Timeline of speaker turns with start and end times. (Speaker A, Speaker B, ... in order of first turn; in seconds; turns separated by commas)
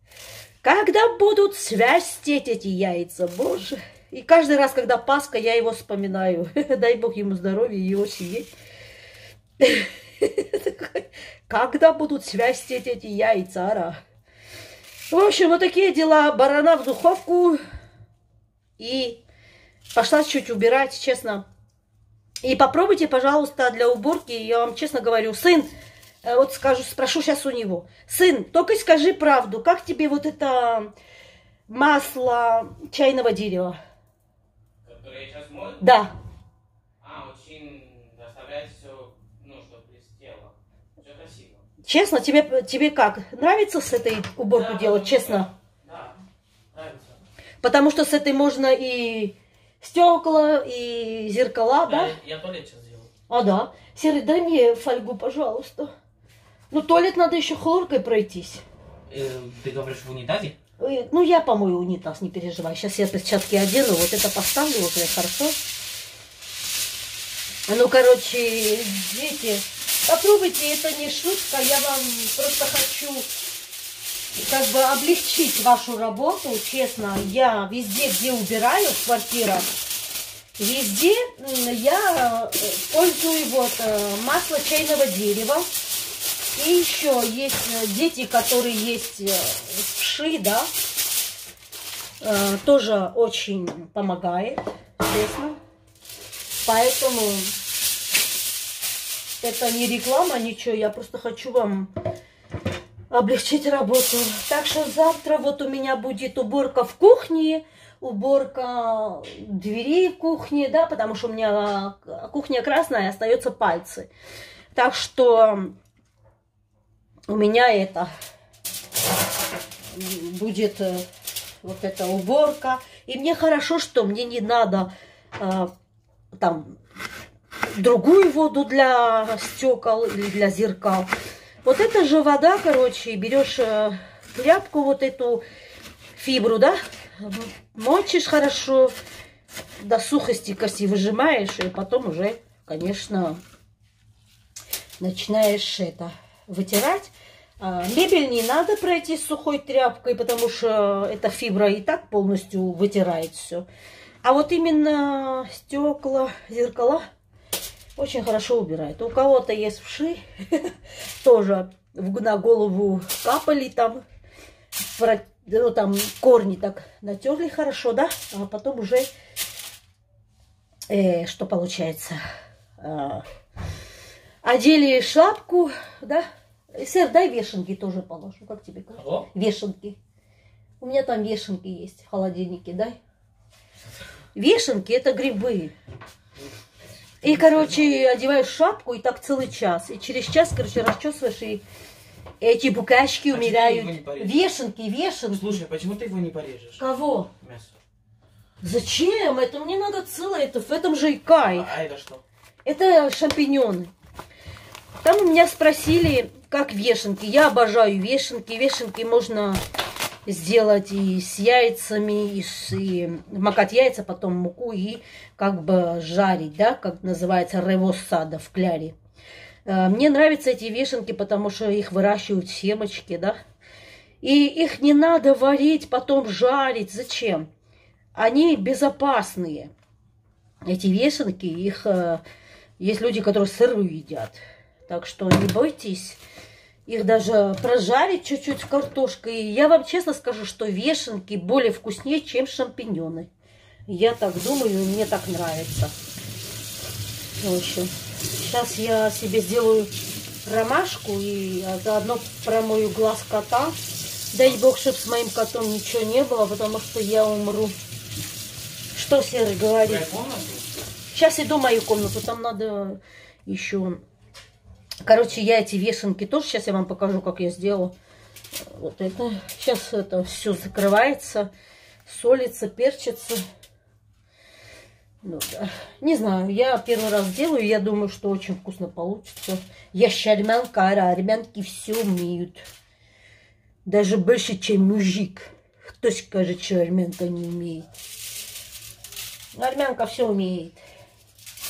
Speaker A: 0.6-8.5, Speaker A: 9.6-14.0, Speaker A: 15.1-17.6, Speaker A: 18.8-19.2, Speaker A: 19.9-21.5, Speaker A: 22.4-25.7, Speaker A: 26.2-30.9, Speaker A: 31.7-33.8, Speaker B: 34.9-35.8, Speaker A: 35.8-36.1, Speaker B: 37.0-41.6, Speaker A: 41.8-45.5, Speaker B: 44.8-45.3, Speaker B: 45.9-46.1, Speaker B: 46.7-47.2, Speaker A: 47.6-52.1, Speaker B: 51.9-53.1, Speaker A: 53.3-55.9, Speaker A: 56.7-58.6, Speaker B: 59.1-60.5, Speaker A: 60.8-65.6, Speaker A: 67.7-73.3, Speaker A: 74.4-79.7, Speaker A: 80.6-85.7, Speaker A: 86.5-90.7, Speaker A: 92.2-95.6, Speaker A: 96.6-97.5, Speaker A: 99.4-101.9, Speaker A: 103.1-114.1, Speaker A: 114.7-115.8, Speaker A: 117.3-118.1, Speaker A: 119.9-121.0, Speaker A: 121.6-125.7, Speaker A: 126.4-126.8, Speaker A: 127.7-131.1, Speaker A: 131.6-135.4, Speaker A: 136.2-138.9, Speaker A: 139.8-143.4, Speaker A: 145.0-153.7, Speaker A: 154.2-157.0, Speaker A: 158.0-164.0, Speaker A: 164.9-169.1, Speaker A: 170.9-172.2, Speaker A: 172.8-173.2, Speaker A: 174.4-176.2, Speaker A: 176.8-180.0, Speaker B: 179.0-179.3, Speaker A: 180.8-183.0, Speaker A: 184.3-185.8, Speaker A: 187.2-191.6, Speaker A: 192.4-195.5, Speaker B: 193.3-194.4, Speaker B: 195.3-196.8, Speaker A: 196.8-197.3, Speaker B: 197.4-197.7, Speaker A: 198.6-201.7, Speaker B: 201.5-202.2, Speaker A: 202.6-203.9, Speaker A: 205.0-209.6, Speaker A: 210.2-219.0, Speaker A: 219.7-223.4, Speaker A: 224.2-227.5, Speaker A: 228.1-229.7, Speaker A: 230.6-232.2, Speaker A: 232.8-236.2, Speaker A: 236.9-243.3, Speaker A: 243.9-245.9, Speaker A: 247.4-249.9, Speaker A: 250.4-253.8, Speaker A: 254.3-257.8, Speaker A: 258.9-260.1, Speaker B: 259.9-260.7, Speaker A: 261.1-264.0, Speaker A: 265.0-267.9, Speaker A: 268.6-271.5, Speaker A: 272.1-273.4, Speaker A: 275.2-282.6, Speaker A: 283.9-287.9, Speaker A: 289.5-290.8